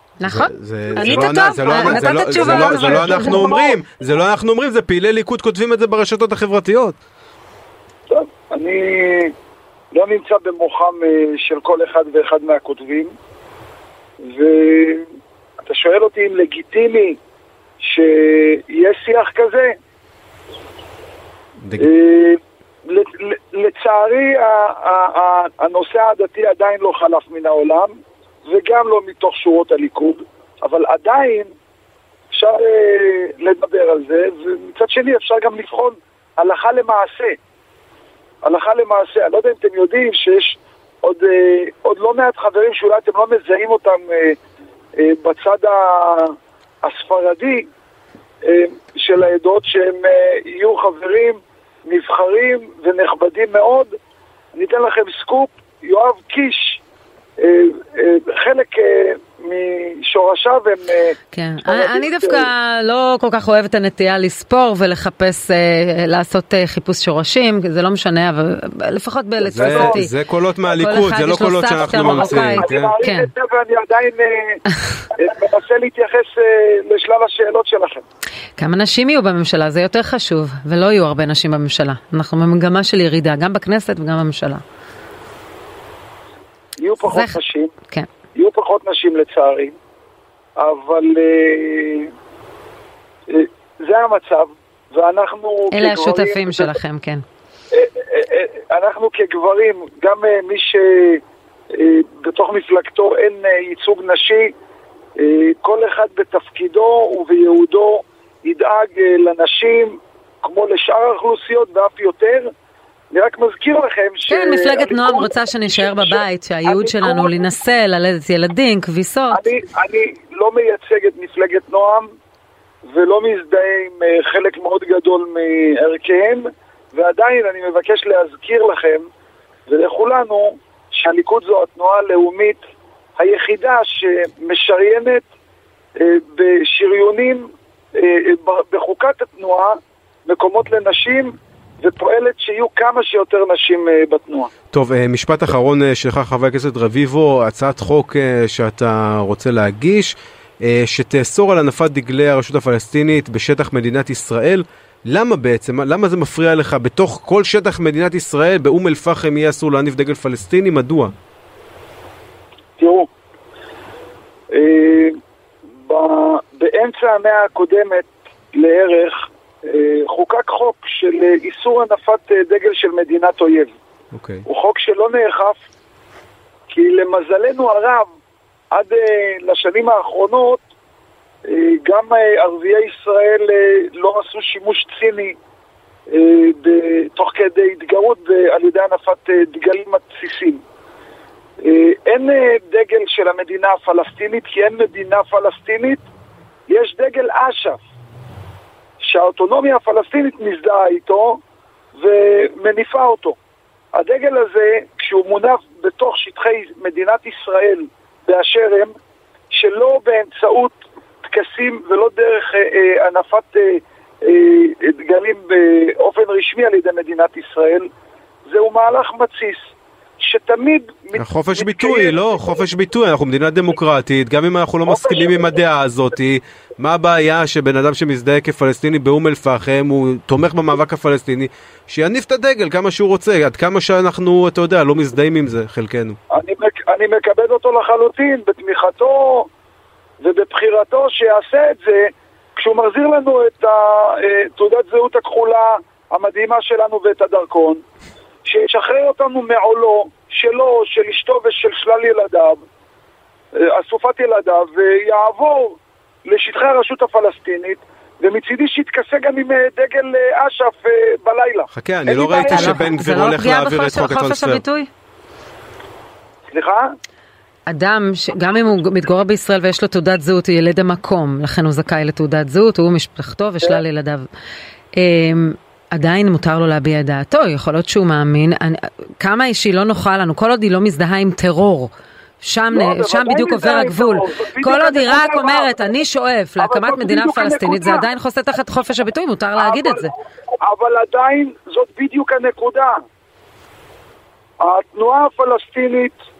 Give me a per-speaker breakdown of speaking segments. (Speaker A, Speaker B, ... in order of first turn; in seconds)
Speaker A: 0.2-3.5, 61.3-70.1, 70.7-73.3, 78.6-84.6, 87.0-87.3, 95.7-97.2, 114.3-119.4, 262.3-264.9, 267.7-274.2, 274.9-290.1
Speaker B: 0.3-7.0, 21.6-21.9, 69.4-72.9, 144.7-161.1, 174.1-174.4, 221.1-236.2, 261.7-264.6
Speaker C: 0.9-3.8, 8.1-9.3, 9.9-13.1, 14.2-15.0, 15.6-17.2, 17.8-19.7, 21.8-27.9, 28.5-31.5, 32.3-37.4, 38.4-44.4, 45.0-47.7, 48.4-53.9, 54.5-56.8, 57.4-62.5, 69.6-70.0, 71.9-78.0, 86.8-87.7, 88.3-89.7, 90.6-92.1, 93.3-96.8, 97.7-101.2, 101.7-104.5, 105.2-112.5, 113.1-117.5, 119.3-122.1, 122.9-129.1, 129.7-132.6, 133.2-135.2, 136.0-144.5, 162.8-163.1, 164.5-165.1, 165.8-173.7, 174.4-175.6, 176.7-178.1, 178.7-180.6, 181.4-185.4, 186.1-190.6, 191.6-196.0, 196.7-197.8, 199.0-201.4, 202.0-203.4, 203.9-208.9, 209.5-217.9, 218.5-222.3, 224.8-225.5, 236.3-239.5, 240.2-247.8, 248.4-252.6, 253.5-262.9, 266.5-266.9, 282.7-285.8, 286.6-288.1, 289.6-290.1, 290.6-293.0, 294.6-296.2